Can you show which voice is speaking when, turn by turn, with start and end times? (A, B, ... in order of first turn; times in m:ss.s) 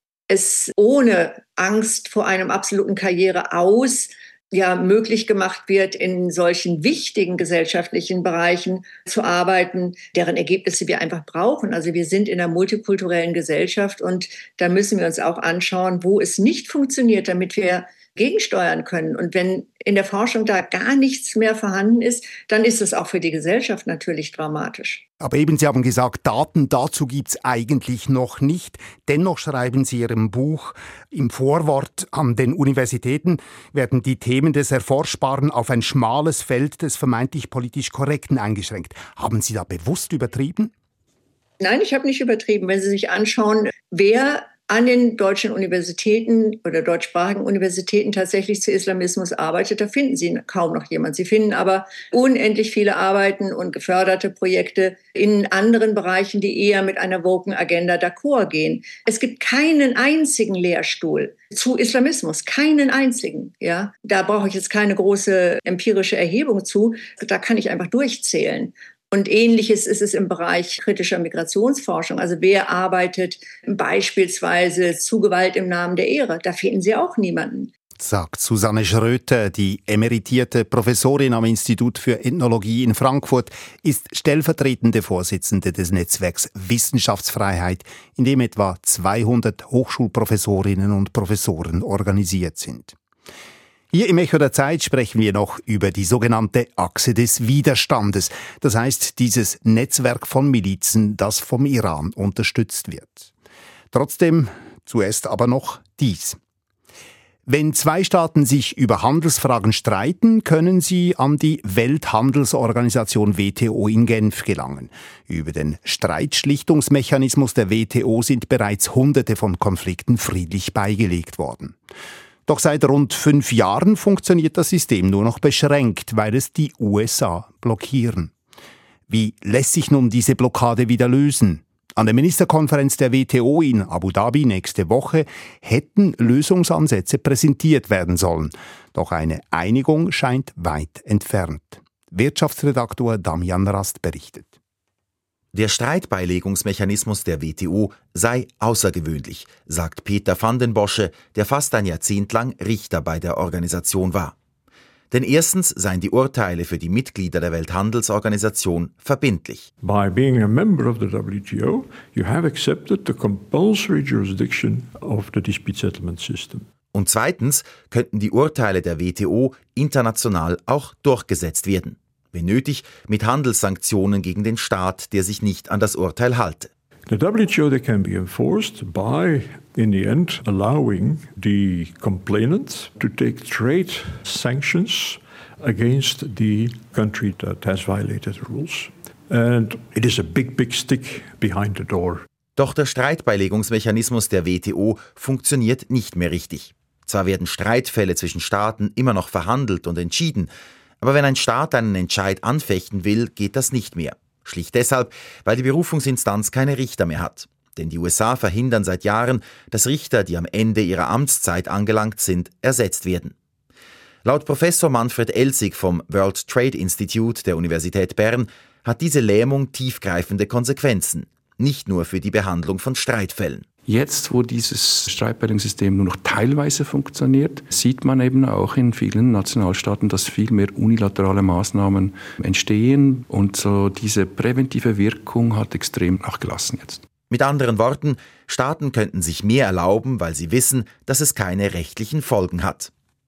0:00.3-0:25.0 A
0:25.2-0:40.7 B
0:41.6-1:17.7 A
1:18.0-1:33.0 B
1:33.9-1:43.3 B
1:43.9-1:46.4 B
1:47.5-2:01.8 B
2:02.5-2:08.3 B
2:09.1-2:24.5 B
2:25.5-2:34.3 C
2:35.1-2:39.7 C
2:39.8-2:46.7 D
2:46.9-2:56.7 C
2:57.1-3:12.3 D
3:12.6-3:20.5 C
3:21.0-3:33.3 C
3:34.2-3:43.6 C
3:43.9-3:57.0 E
3:57.3-4:02.9 C